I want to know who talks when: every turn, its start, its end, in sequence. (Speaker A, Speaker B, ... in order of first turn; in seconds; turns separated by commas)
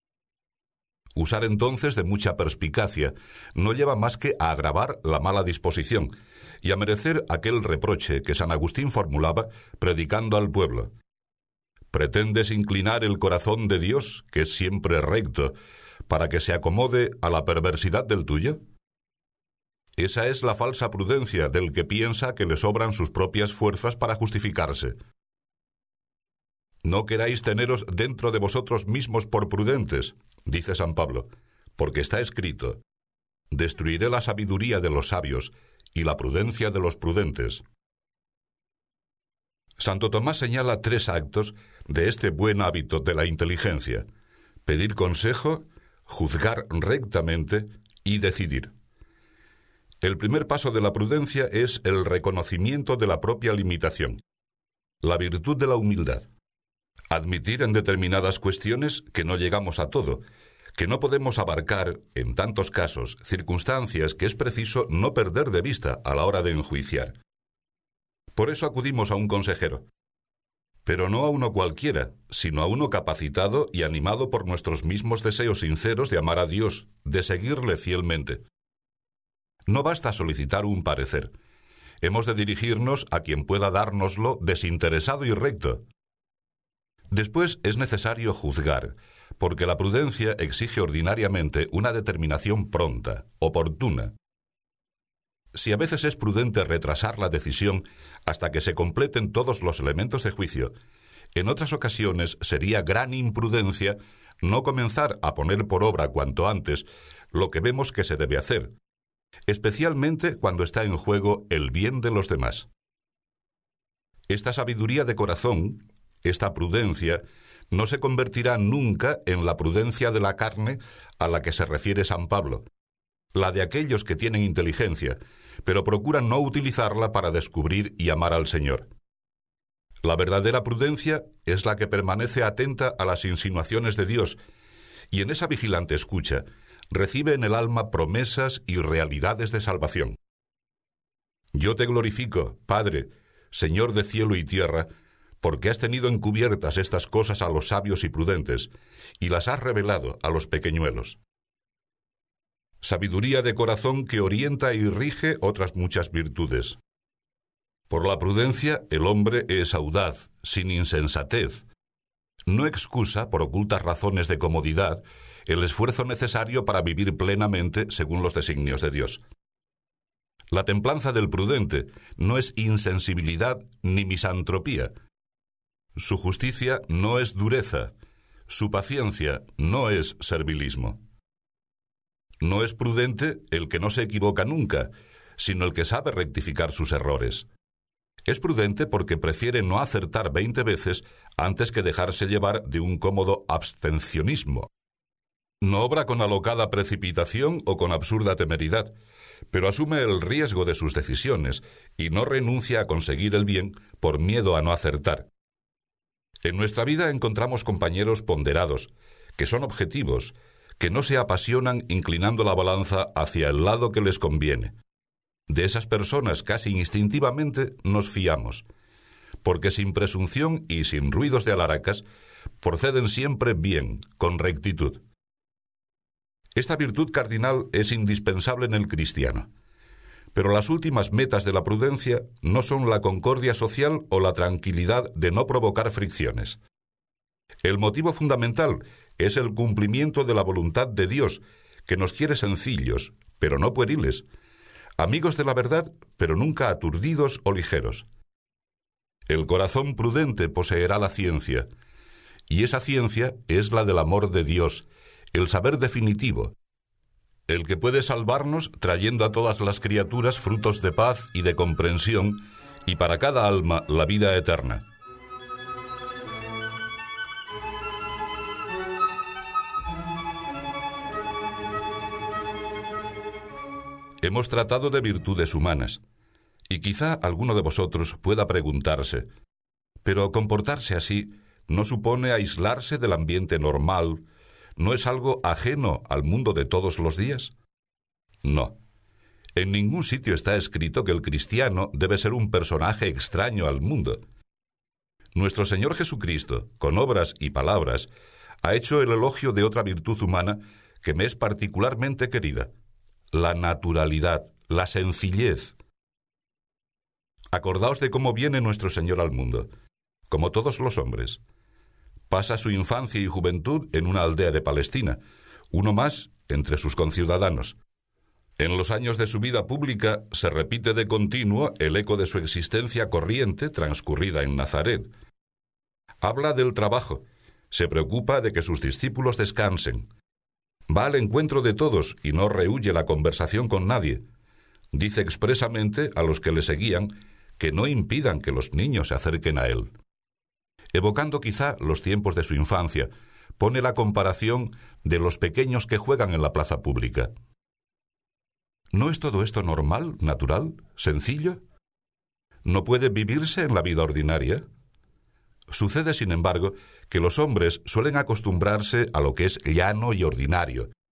Speaker A: 1.1-10.9, Speaker A: 11.9-15.6, Speaker A: 16.1-18.6, Speaker A: 20.0-24.9, Speaker A: 26.8-32.8, Speaker A: 33.5-37.6, Speaker A: 39.8-44.1, Speaker A: 44.6-48.7, Speaker A: 50.0-54.2, Speaker A: 55.0-56.2, Speaker A: 57.1-60.2, Speaker A: 60.7-67.2, Speaker A: 68.3-69.9, Speaker A: 70.9-78.4, Speaker A: 79.7-81.3, Speaker A: 82.0-85.8, Speaker A: 87.1-94.1, Speaker A: 95.5-100.7, Speaker A: 101.3-108.8, Speaker A: 109.5-112.7, Speaker A: 114.3-122.7, Speaker A: 123.3-128.9, Speaker A: 130.0-134.4, Speaker A: 135.1-140.2, Speaker A: 141.5-144.9, Speaker A: 145.4-151.2, Speaker A: 152.8-156.8, Speaker A: 157.9-161.6, Speaker A: 162.4-169.2, Speaker A: 170.5-174.9, Speaker A: 175.9-177.9, Speaker A: 178.5-181.0, Speaker A: 182.4-187.5, Speaker A: 188.2-194.7, Speaker A: 195.6-198.9, Speaker A: 199.5-205.3, Speaker A: 206.4-214.8, Speaker A: 215.5-218.6, Speaker A: 219.4-222.0, Speaker A: 222.6-225.0, Speaker A: 226.6-229.5, Speaker A: 230.3-236.6, Speaker A: 237.6-244.2, Speaker A: 245.0-248.1, Speaker A: 249.3-251.7, Speaker A: 252.5-256.6, Speaker A: 257.5-264.9, Speaker A: 274.2-276.0, Speaker A: 276.7-279.3, Speaker A: 280.0-284.2, Speaker A: 284.8-287.5, Speaker A: 288.4-288.8, Speaker A: 289.6-294.2, Speaker A: 295.4-298.1, Speaker A: 298.6-302.7, Speaker A: 303.3-305.7, Speaker A: 307.5-309.7, Speaker A: 310.3-311.4, Speaker A: 312.3-315.2, Speaker A: 315.7-317.8, Speaker A: 318.6-325.1, Speaker A: 326.2-330.1, Speaker A: 330.9-334.2, Speaker A: 334.9-339.9, Speaker A: 340.9-347.3, Speaker A: 348.9-351.6, Speaker A: 352.6-354.6, Speaker A: 355.7-360.9